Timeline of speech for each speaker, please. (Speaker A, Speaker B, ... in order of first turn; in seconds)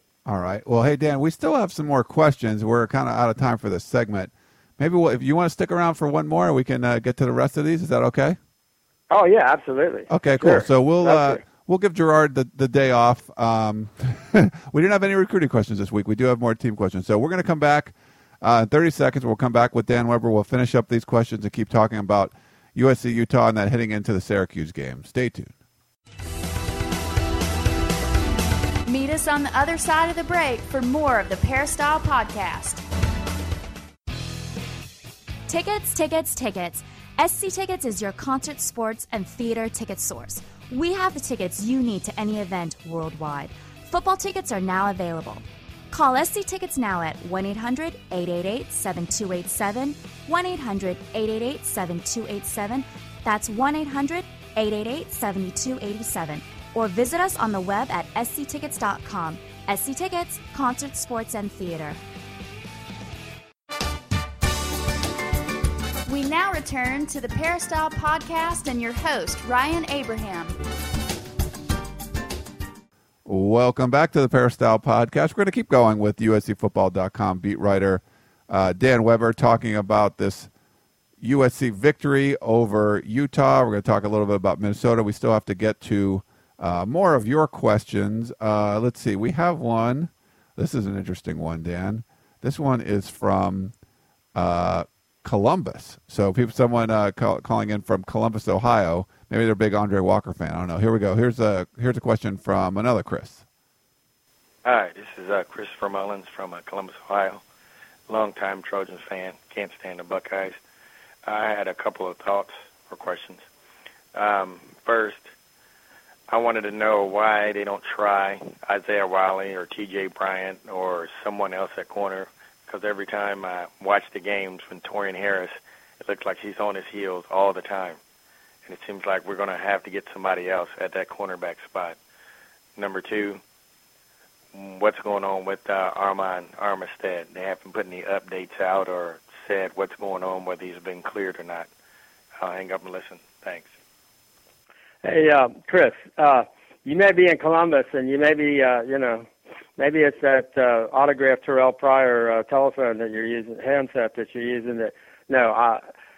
Speaker A: 0.3-8.4, 10.1-25.5, 73.3-80.5, 81.2-93.7, 94.3-103.4
Speaker B: 9.1-11.4, 145.0-155.8
Speaker C: 28.9-32.8, 66.1-70.6
Speaker D: 35.5-62.0
Speaker E: 104.7-107.4, 108.1-110.6, 111.2-113.5, 114.1-115.3, 116.3-128.0, 128.7-132.0, 132.8-133.4, 134.5-141.7, 142.4-143.7